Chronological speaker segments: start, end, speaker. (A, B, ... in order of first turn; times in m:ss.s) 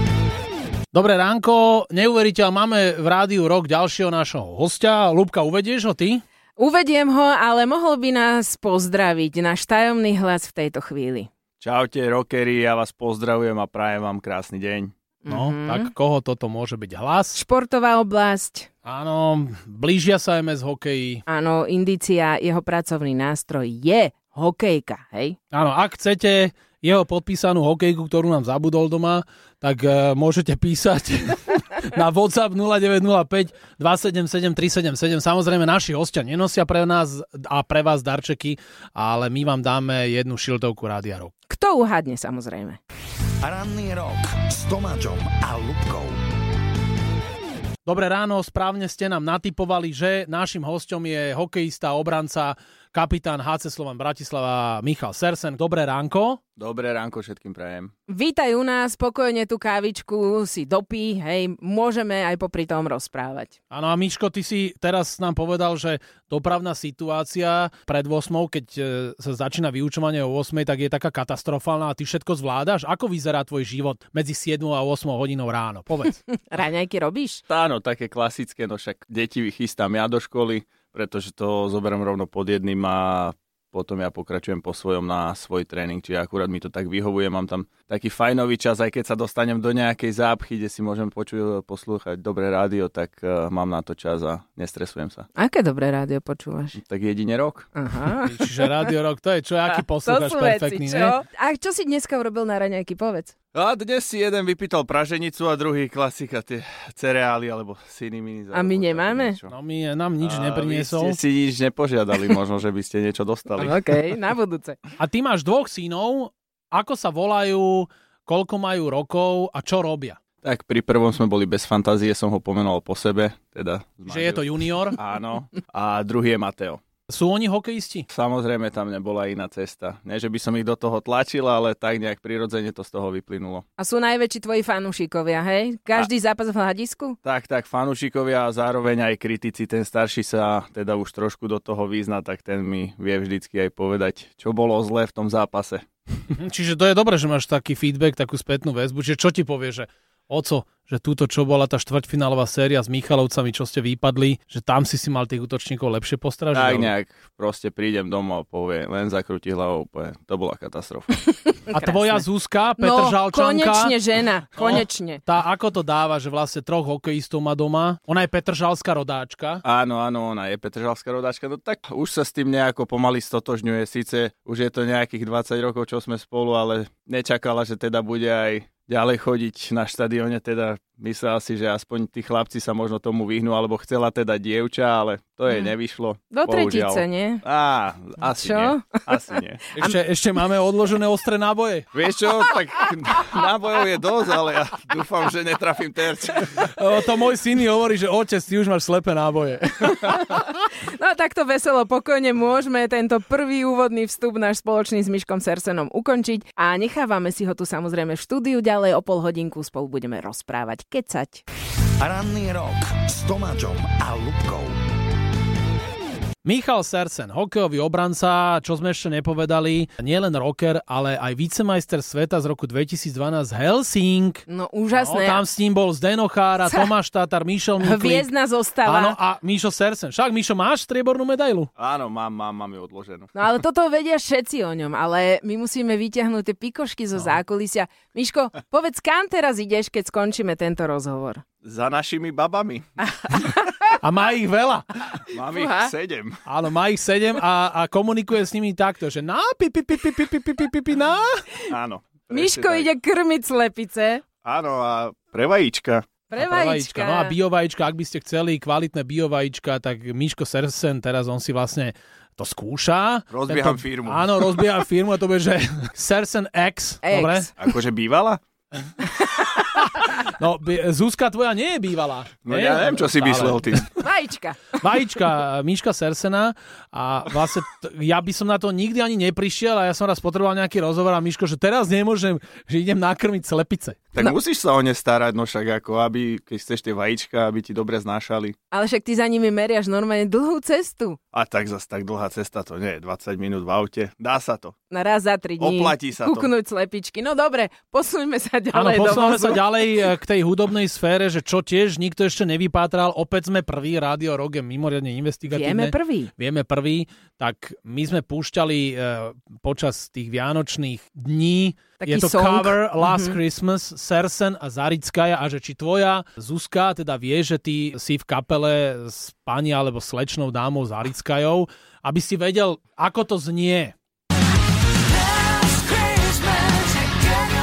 0:00.9-0:06.2 A
0:06.6-0:11.3 B
0:11.6-0:14.9 C
0:15.2-0:15.9 B
0:15.3-0:17.4 A
0:17.4-0:18.7 B
0:18.8-0:21.2 A
0:21.3-0:25.4 B
0:25.5-0:41.3 A
0:41.5-0:42.8 B
0:43.4-0:46.2 D
0:47.8-0:56.4 A
0:56.6-0:57.9 C
0:58.1-1:03.5 B
1:03.7-1:16.2 A
1:16.3-1:17.4 B
1:17.5-1:35.3 C
1:35.4-1:36.8 B
1:36.8-1:37.7 C
1:37.8-1:38.9 B
1:38.2-1:41.2 A
1:40.0-1:43.4 B
1:43.5-1:49.5 C
1:48.5-1:49.4 B
1:49.5-1:51.2 A
1:50.2-1:53.8 C
1:53.6-1:54.8 B
1:55.0-2:00.2 A
2:00.4-2:06.8 C
2:04.1-2:05.0 A
2:07.1-2:08.1 A
2:08.1-2:13.6 C
2:13.8-2:17.2 B
2:17.2-2:25.9 C
2:26.3-2:36.9 A
2:36.5-2:41.1 C
2:41.5-2:42.2 B
2:41.7-2:44.0 A
2:42.8-2:45.2 B
2:44.6-2:49.6 A
2:49.6-3:09.7 C
3:06.3-3:07.4 B
3:08.2-3:09.0 B
3:09.8-3:11.9 A
3:11.9-3:16.6 C
3:16.5-3:20.4 A
3:20.0-3:31.4 B
3:32.0-3:34.8 D
3:36.4-3:44.4 A
3:44.5-3:45.4 B
3:44.9-3:48.3 A
3:47.8-3:49.2 B
3:48.8-3:51.7 A
3:51.8-3:53.3 C
3:53.4-4:01.4 B
4:01.6-4:02.9 C
4:03.1-4:04.0 B
4:03.9-4:05.0 A
4:05.3-4:06.4 C
4:05.5-4:05.9 B
4:06.4-4:11.5 A
4:11.7-4:12.9 C
4:12.3-4:14.3 B
4:14.4-4:16.1 C
4:16.3-4:17.3 B
4:16.4-4:27.5 A
4:23.3-4:24.6 C
4:27.0-4:27.6 B
4:27.6-4:28.4 C
4:29.0-4:33.9 A
4:32.4-4:33.9 C
4:34.0-4:34.8 B
4:34.8-4:44.0 A
4:44.2-4:48.6 C
4:48.7-4:51.2 B
4:51.3-4:54.7 C
4:54.9-4:59.7 B
4:55.6-4:56.5 C
4:58.7-5:24.0 A
5:05.5-5:06.3 B
5:12.0-5:13.4 B
5:25.8-5:26.7 B